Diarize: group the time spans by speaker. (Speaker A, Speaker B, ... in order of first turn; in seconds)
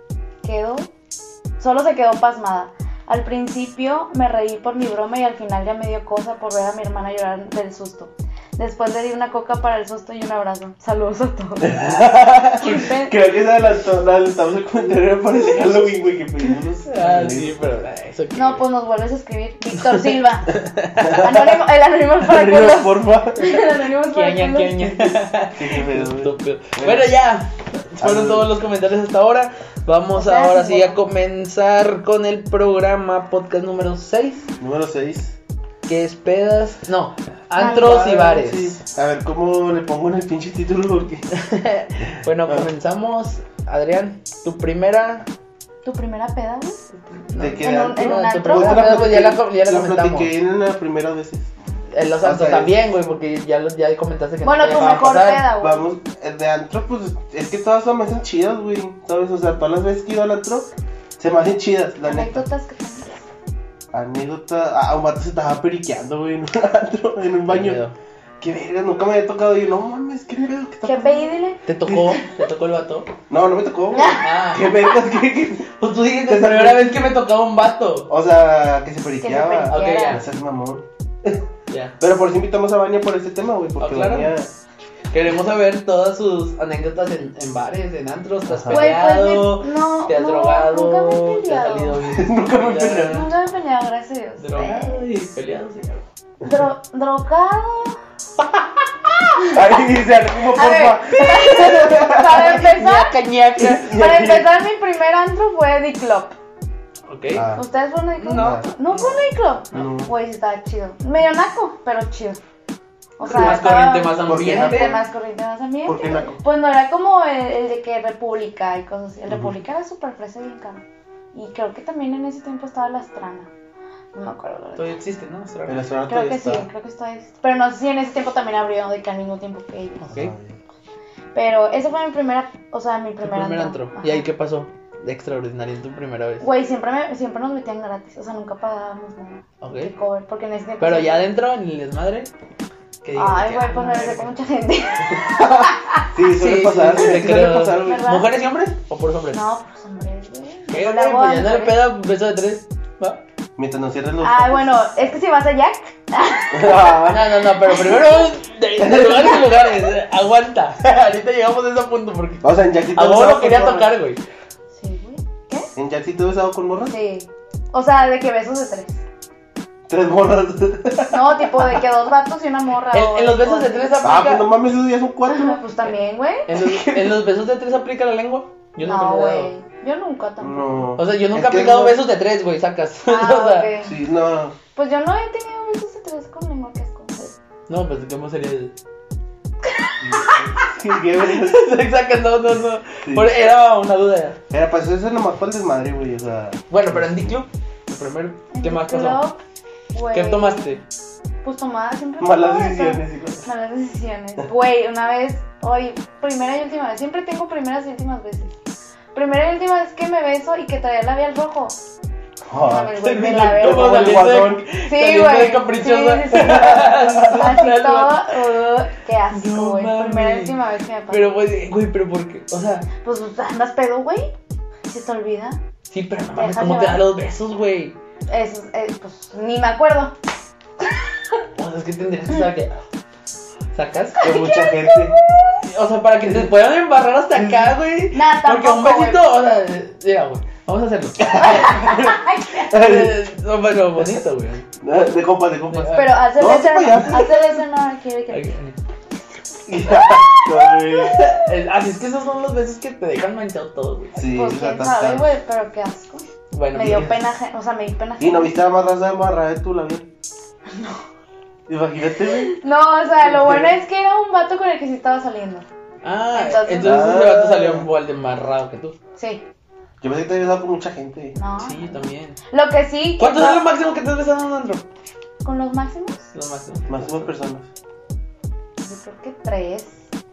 Speaker A: 0.4-0.9, 1.6-11.8, 12.5-13.2, 18.3-25.1, 30.1-31.0, 37.5-38.3, 45.8-46.8, 47.6-49.2, 54.4-55.8, 62.0-63.2, 70.8-72.3, 73.9-74.3, 79.2-80.2, 88.7-92.0, 93.0-95.0, 96.4-98.0, 100.5-103.2, 103.9-106.3, 107.5-112.4, 113.2-123.5, 124.1-124.9, 126.1-130.1, 131.3-134.2, 136.4-141.2, 143.2-146.0, 147.8-148.3, 149.3-151.8, 154.2-157.1, 157.7-158.3, 164.7-165.7, 166.9-169.0, 171.1-173.9, 175.2-176.5, 178.8-180.9, 183.1-183.9, 184.7-187.3, 189.6-190.4, 198.5-199.4, 199.9-200.8, 201.4-208.5, 209.1-211.8, 212.6-214.2, 214.8-221.3, 223.0-224.3, 224.9-225.6, 226.3-227.0, 228.3-230.1, 234.2-234.9, 238.1-239.3, 241.3-242.7, 245.9-248.5, 250.0-250.4, 254.3-258.5, 260.7-261.0, 262.4-265.7, 266.3-267.0, 269.2-269.4, 271.3-273.6, 275.4-276.3, 278.8-280.0
Speaker B: 11.6-17.9, 20.9-21.6, 22.2-23.4, 25.6-27.1, 28.0-28.5, 34.6-35.4, 37.7-41.3, 47.4-51.5, 52.2-52.8, 54.9-62.4, 63.9-67.8, 68.4-71.3, 71.8-72.2, 73.3-77.0, 78.1-81.5, 82.0-84.5, 88.5-88.9, 92.0-93.3, 99.5-102.6, 103.5-104.5, 107.3-107.6, 108.3-108.7, 109.7-110.1, 113.2-115.0, 115.8-116.4, 119.3-119.5, 125.7-126.7, 130.1-130.6, 146.1-148.1, 153.6-154.7, 156.5-157.3, 158.8-159.5, 162.4-163.9, 165.8-166.9, 169.9-171.6, 174.0-175.6, 180.4-182.0, 183.8-184.6, 190.0-191.7, 193.0-193.3, 194.5-197.1, 202.2-203.4, 212.5-214.7, 216.3-217.4, 234.2-235.2, 237.3-237.7, 241.2-243.2, 244.8-247.4, 249.7-251.3, 254.1-255.3, 256.8-257.2, 258.2-260.1, 261.7-262.5, 263.2-263.8, 266.8-267.9, 270.0-271.4, 276.9-277.7
Speaker C: 16.5-18.6, 20.6-21.1, 24.0-34.5, 35.9-38.8, 41.3-45.3, 47.1-50.3, 51.9-55.5, 67.5-67.9, 71.7-73.1, 74.2-74.8, 75.8-78.1, 79.7-80.2, 81.7-82.0, 83.8-84.3, 85.1-93.2, 94.4-96.0, 101.5-103.9, 107.1-107.5, 108.2-109.8, 113.2-115.0, 124.8-125.9, 130.0-130.3, 133.2-136.4, 139.6-139.9, 140.8-142.3, 143.0-144.3, 146.2-149.4, 150.7-153.2, 157.1-164.2, 172.9-174.5, 176.5-179.5, 181.0-183.7, 187.7-188.7, 191.3-194.4, 196.7-199.2, 200.1-200.8, 212.9-218.3, 219.3-220.5, 221.1-222.9, 225.9-227.9, 231.5-232.8, 233.7-234.3, 235.6-241.9, 242.7-244.7, 245.7-247.1, 248.3-248.8, 251.1-254.3, 256.5-257.1, 266.0-269.0, 271.6-272.4, 273.2-274.9, 276.3-277.3